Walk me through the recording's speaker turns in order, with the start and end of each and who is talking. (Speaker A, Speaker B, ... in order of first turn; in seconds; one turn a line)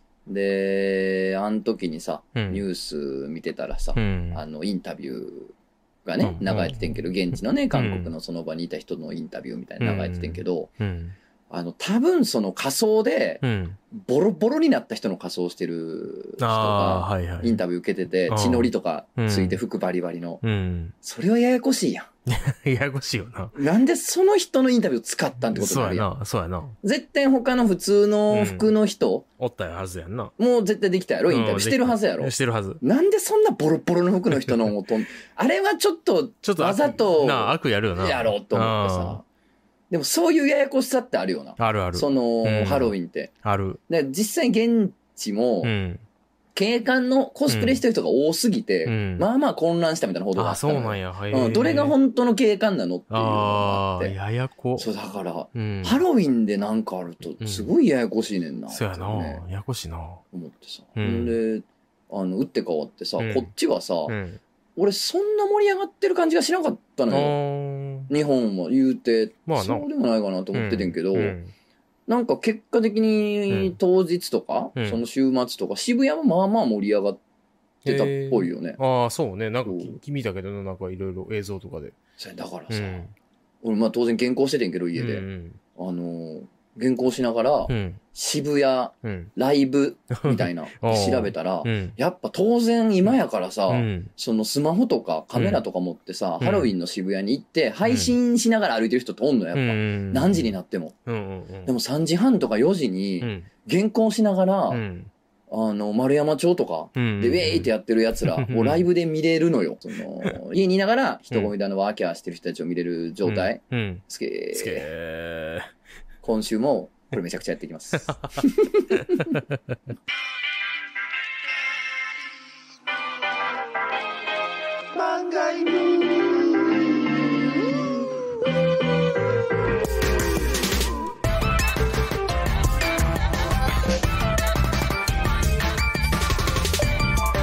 Speaker A: 0.3-5.5
Speaker B: 2.4-2.6
Speaker B: 4.0-4.4
Speaker A: 6.0-10.7
Speaker B: 6.2-7.0
Speaker B: 7.7-8.1
Speaker B: 9.8-11.1
Speaker A: 11.5-20.4
Speaker B: 13.4-13.8
Speaker B: 16.4-17.6
Speaker B: 18.3-19.6
Speaker B: 20.4-20.9
Speaker A: 21.0-22.1
Speaker B: 22.3-23.6
Speaker A: 23.6-26.1
Speaker B: 25.5-26.7
Speaker A: 26.8-29.2
Speaker B: 28.3-28.7
Speaker B: 29.4-30.3
Speaker A: 30.4-39.2
Speaker B: 31.3-32.8
Speaker B: 34.3-34.8
Speaker B: 36.4-39.2
Speaker A: 39.9-43.3
Speaker B: 41.6-42.9
Speaker B: 43.4-43.8
Speaker A: 43.9-45.7
Speaker B: 45.6-46.0
Speaker A: 46.5-54.1
Speaker B: 47.5-47.8
Speaker B: 48.9-49.3
Speaker B: 50.4-52.0
Speaker B: 53.1-54.9
Speaker A: 54.8-59.4
Speaker B: 55.5-56.0
Speaker B: 57.4-57.7
Speaker B: 58.7-60.2
Speaker A: 60.3-64.2
Speaker B: 61.0-61.4
Speaker B: 63.2-63.5
Speaker B: 64.1-64.4
Speaker A: 64.8-67.4
Speaker B: 67.1-68.1
Speaker A: 68.1-71.4
Speaker B: 69.5-69.9
Speaker B: 70.5-71.5
Speaker A: 72.1-77.2
Speaker B: 73.5-73.8
Speaker B: 74.8-75.0
Speaker B: 77.8-82.0
Speaker A: 77.8-78.8
Speaker A: 79.6-80.0
Speaker A: 82.2-83.1
Speaker B: 82.7-83.1
Speaker A: 83.6-85.2
Speaker B: 85.0-85.6
Speaker A: 85.8-100.9
Speaker B: 87.7-88.0
Speaker B: 89.0-89.3
Speaker B: 90.2-91.9
Speaker B: 93.7-94.1
Speaker B: 95.3-95.6
Speaker B: 96.4-96.7
Speaker B: 97.8-98.1
Speaker B: 99.5-100.5
Speaker B: 101.1-101.7
Speaker A: 101.6-104.8
Speaker B: 103.2-103.5
Speaker B: 104.7-105.1
Speaker A: 105.5-114.9
Speaker B: 107.0-107.7
Speaker B: 108.2-108.8
Speaker B: 113.2-114.0
Speaker B: 114.5-115.7
Speaker A: 116.2-119.4
Speaker B: 118.9-119.7
Speaker A: 124.9-126.7